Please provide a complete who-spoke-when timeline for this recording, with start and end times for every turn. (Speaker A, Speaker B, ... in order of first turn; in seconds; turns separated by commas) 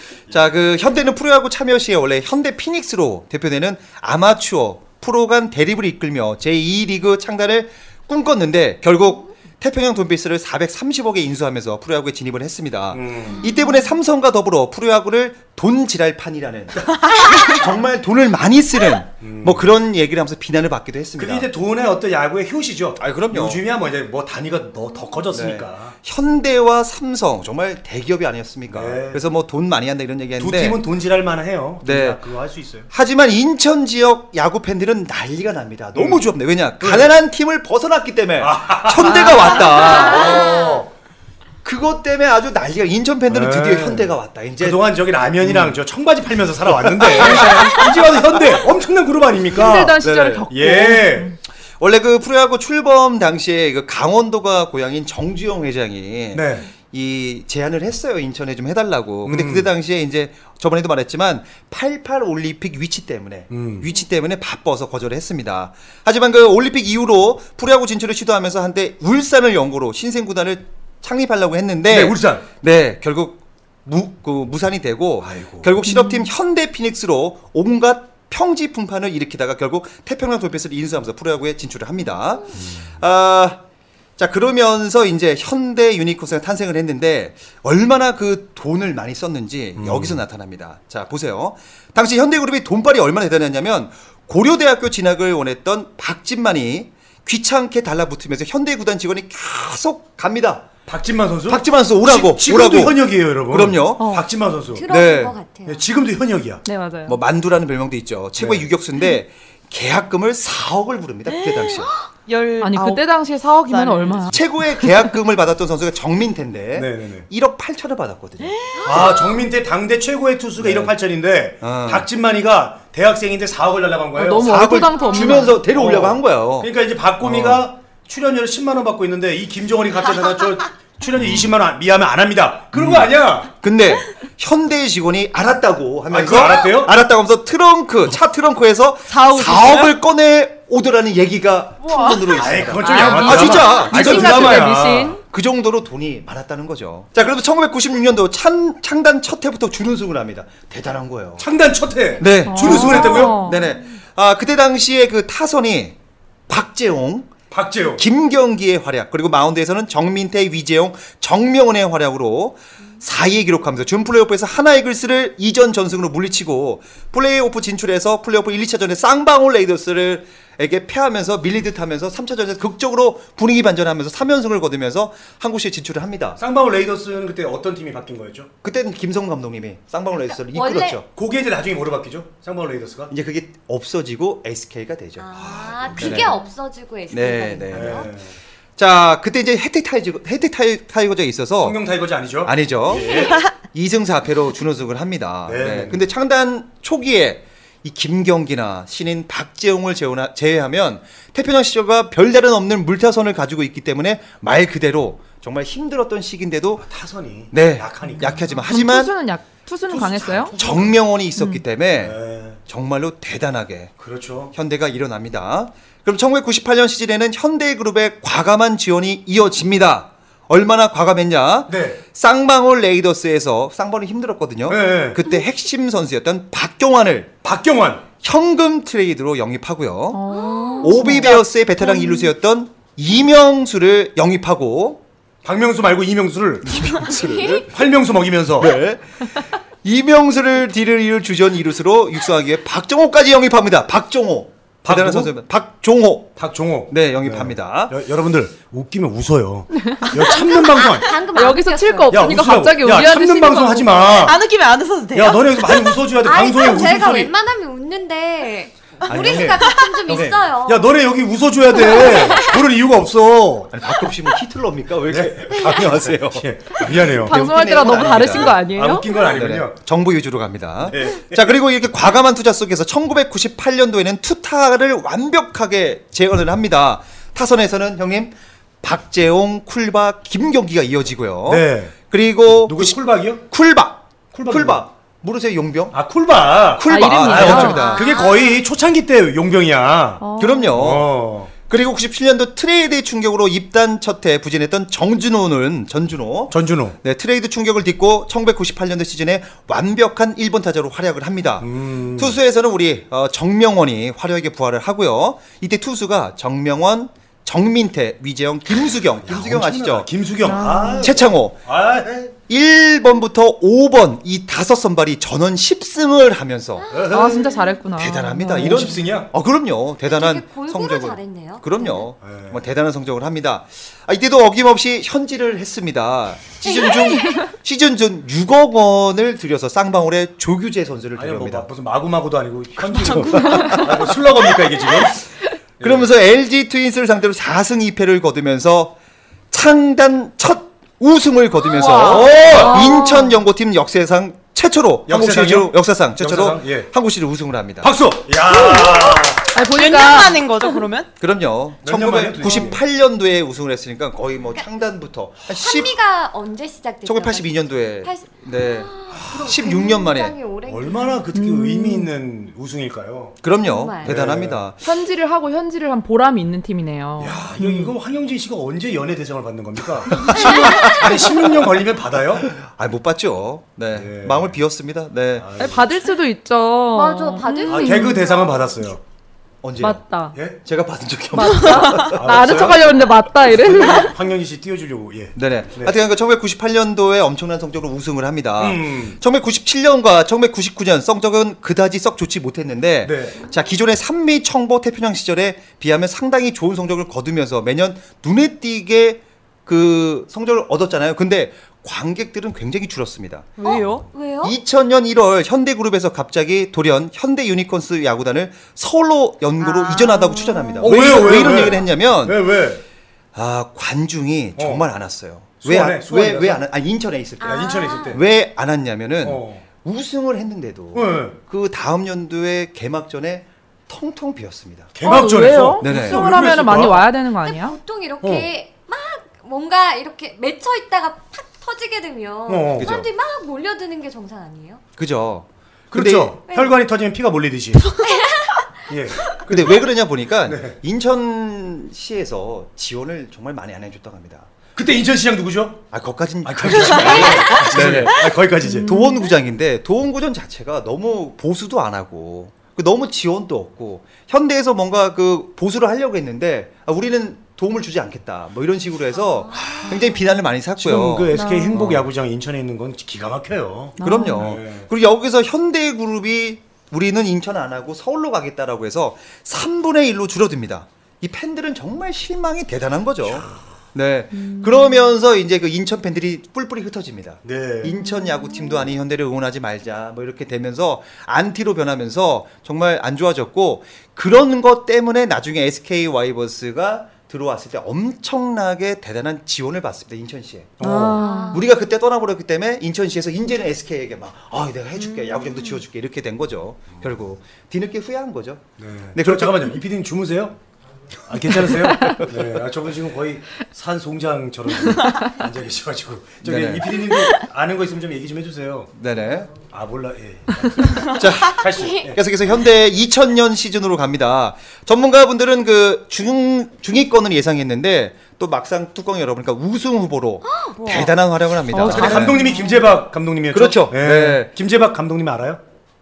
Speaker A: 0.3-21.5, Speaker B: 12.9-13.4, Speaker B: 19.2-19.7, Speaker B: 21.2-25.9, Speaker A: 23.0-23.6, Speaker A: 25.3-30.8, Speaker B: 28.7-29.2, Speaker B: 30.4-32.9, Speaker A: 31.8-32.2, Speaker A: 32.9-40.8, Speaker B: 35.9-36.2, Speaker B: 36.8-37.1, Speaker B: 38.4-40.8, Speaker C: 39.6-40.8, Speaker A: 41.6-44.8, Speaker B: 43.3-51.3, Speaker A: 45.4-45.8, Speaker A: 46.7-47.9, Speaker D: 49.5-51.4, Speaker A: 50.0-50.5, Speaker A: 51.8-83.6, Speaker B: 56.3-56.7, Speaker B: 59.2-59.7, Speaker B: 63.5-63.9, Speaker B: 71.9-72.4, Speaker B: 75.2-75.7, Speaker D: 75.8-76.3, Speaker A: 84.2-100.7, Speaker B: 89.8-90.2, Speaker B: 100.9-104.8, Speaker A: 101.5-104.2, Speaker D: 104.0-104.3, Speaker C: 104.7-105.8, Speaker A: 104.9-105.3, Speaker B: 105.7-106.6, Speaker D: 106.6-107.2, Speaker A: 107.1-111.9, Speaker B: 108.4-108.7, Speaker E: 111.3-113.0, Speaker D: 112.6-114.4, Speaker E: 113.7-114.3, Speaker A: 114.3-119.2, Speaker B: 116.8-117.2, Speaker E: 118.4-119.4, Speaker B: 118.8-124.7, Speaker A: 120.6-120.9, Speaker A: 121.6-122.1, Speaker D: 124.1-125.6, Speaker A: 124.4-126.7, Speaker B: 125.7-133.5, Speaker A: 127.2-127.6, Speaker A: 131.1-131.5, Speaker A: 132.7-151.5, Speaker B: 136.1-136.9, Speaker E: 139.1-140.0, Speaker E: 141.8-143.2, Speaker B: 142.3-145.2, Speaker D: 142.8-145.2, Speaker B: 151.4-153.3, Speaker A: 152.2-155.9, Speaker D: 152.5-153.7, Speaker A: 156.5-157.3, Speaker B: 157.5-158.0, Speaker A: 158.0-176.4, Speaker B: 176.4-178.5, Speaker A: 178.6-181.1, Speaker C: 180.3-181.0, Speaker B: 181.1-183.1, Speaker A: 183.1-186.4, Speaker C: 185.2-188.1, Speaker B: 185.4-186.4, Speaker A: 187.1-188.1, Speaker B: 187.7-188.4, Speaker A: 188.8-191.8, Speaker B: 191.6-193.3, Speaker A: 192.4-206.8, Speaker B: 195.5-196.0, Speaker B: 206.8-208.5, Speaker A: 207.5-209.1, Speaker D: 208.0-210.6, Speaker B: 209.9-211.0, Speaker A: 210.6-213.9, Speaker D: 211.4-211.6, Speaker B: 212.0-212.6, Speaker B: 214.0-214.5, Speaker A: 214.5-227.4, Speaker B: 221.7-222.0, Speaker B: 224.7-225.2, Speaker B: 227.4-228.0, Speaker A: 228.2-230.3, Speaker D: 230.1-232.3, Speaker C: 230.3-231.2, Speaker A: 230.8-235.0, Speaker B: 235.4-236.8, Speaker A: 236.6-237.7, Speaker C: 237.2-237.6, Speaker B: 237.6-238.8, Speaker A: 238.6-248.0, Speaker B: 244.8-245.3, Speaker B: 246.4-251.1, Speaker D: 249.8-250.2, Speaker C: 250.0-252.3, Speaker D: 251.3-254.2, Speaker B: 252.1-254.4, Speaker E: 254.1-255.9, Speaker B: 255.1-257.3, Speaker C: 256.2-260.9, Speaker A: 259.1-260.4, Speaker E: 259.6-259.9, Speaker B: 260.1-263.7, Speaker C: 261.7-262.6, Speaker A: 263.7-268.6, Speaker B: 265.1-267.4, Speaker D: 267.1-269.1, Speaker B: 268.1-269.8, Speaker A: 269.2-286.0, Speaker B: 270.9-271.6, Speaker B: 281.5-281.9, Speaker B: 282.7-283.4, Speaker B: 284.3-284.8, Speaker B: 285.9-290.2, Speaker A: 286.7-288.0, Speaker D: 286.9-288.0, Speaker C: 287.5-288.6, Speaker D: 290.2-290.8, Speaker A: 290.4-291.1, Speaker B: 290.8-291.5, Speaker A: 291.7-310.1, Speaker B: 296.5-297.0, Speaker B: 301.6-302.4, Speaker B: 309.2-312.3, Speaker D: 310.4-311.2, Speaker A: 311.0-311.6, Speaker A: 312.5-317.0, Speaker C: 316.8-317.7, Speaker B: 316.9-317.6, Speaker D: 317.1-318.9, Speaker A: 318.0-331.7, Speaker B: 318.5-319.3, Speaker C: 320.1-322.0, Speaker B: 322.2-322.6, Speaker C: 326.9-327.4, Speaker B: 331.1-335.2, Speaker A: 333.1-334.1, Speaker B: 335.8-336.1, Speaker A: 335.8-338.9, Speaker A: 339.5-347.9, Speaker D: 341.8-343.4, Speaker E: 341.8-342.3, Speaker B: 341.9-343.0, Speaker B: 345.1-346.9, Speaker B: 347.8-349.5, Speaker D: 348.5-350.8, Speaker E: 349.5-351.1, Speaker A: 351.2-355.9, Speaker B: 351.8-352.8, Speaker C: 355.5-361.2, Speaker A: 357.0-360.3, Speaker B: 359.1-359.6, Speaker B: 360.7-363.4, Speaker D: 361.3-362.1, Speaker A: 363.4-364.8, Speaker C: 363.6-364.1, Speaker B: 364.0-364.6, Speaker D: 364.8-367.9, Speaker B: 367.2-372.5, Speaker A: 370.2-371.1, Speaker D: 370.3-370.7, Speaker C: 370.3-371.1, Speaker A: 372.5-375.5, Speaker B: 373.9-374.6, Speaker B: 375.4-375.8, Speaker D: 375.6-378.3, Speaker C: 376.9-378.8, Speaker B: 377.6-379.0, Speaker A: 379.6-380.0, Speaker D: 379.8-380.4, Speaker A: 380.6-382.8, Speaker D: 381.3-384.1, Speaker B: 382.1-382.9, Speaker B: 383.5-386.0, Speaker A: 385.3-403.9, Speaker B: 388.6-389.2, Speaker B: 393.0-393.4, Speaker E: 403.6-404.1, Speaker C: 403.6-404.6, Speaker A: 404.4-412.5, Speaker C: 409.6-411.7, Speaker B: 410.8-412.8, Speaker A: 413.3-424.9, Speaker B: 414.6-414.8, Speaker B: 415.6-416.6, Speaker C: 417.4-418.2, Speaker B: 417.4-418.2, Speaker B: 419.2-419.6, Speaker B: 420.9-421.4, Speaker B: 424.9-427.1, Speaker D: 425.0-427.8, Speaker A: 425.8-426.3, Speaker C: 427.4-434.8, Speaker B: 428.2-428.5, Speaker B: 432.5-432.9, Speaker A: 432.8-433.1, Speaker A: 435.0-436.4, Speaker B: 435.9-437.9, Speaker C: 436.5-436.8, Speaker C: 438.0-439.2, Speaker B: 438.9-439.9, Speaker A: 439.5-444.5, Speaker B: 440.4-440.8, Speaker B: 444.8-445.8, Speaker A: 445.9-462.0, Speaker B: 446.4-448.9, Speaker C: 447.2-447.5, Speaker D: 448.6-449.2, Speaker C: 459.5-460.0, Speaker B: 460.8-464.9, Speaker D: 461.3-461.8, Speaker D: 464.0-464.5, Speaker A: 464.0-490.8, Speaker D: 474.4-474.9, Speaker B: 477.4-477.9, Speaker B: 490.8-491.2, Speaker D: 490.8-491.6, Speaker C: 491.1-491.6, Speaker A: 491.4-499.8, Speaker B: 498.8-500.6, Speaker B: 501.3-508.9, Speaker A: 501.9-502.3, Speaker A: 506.4-507.0, Speaker A: 508.9-509.5, Speaker B: 509.7-512.2, Speaker A: 511.1-522.4, Speaker C: 511.6-512.1, Speaker E: 520.8-521.1, Speaker D: 521.7-522.6, Speaker B: 521.8-525.6, Speaker A: 523.5-524.5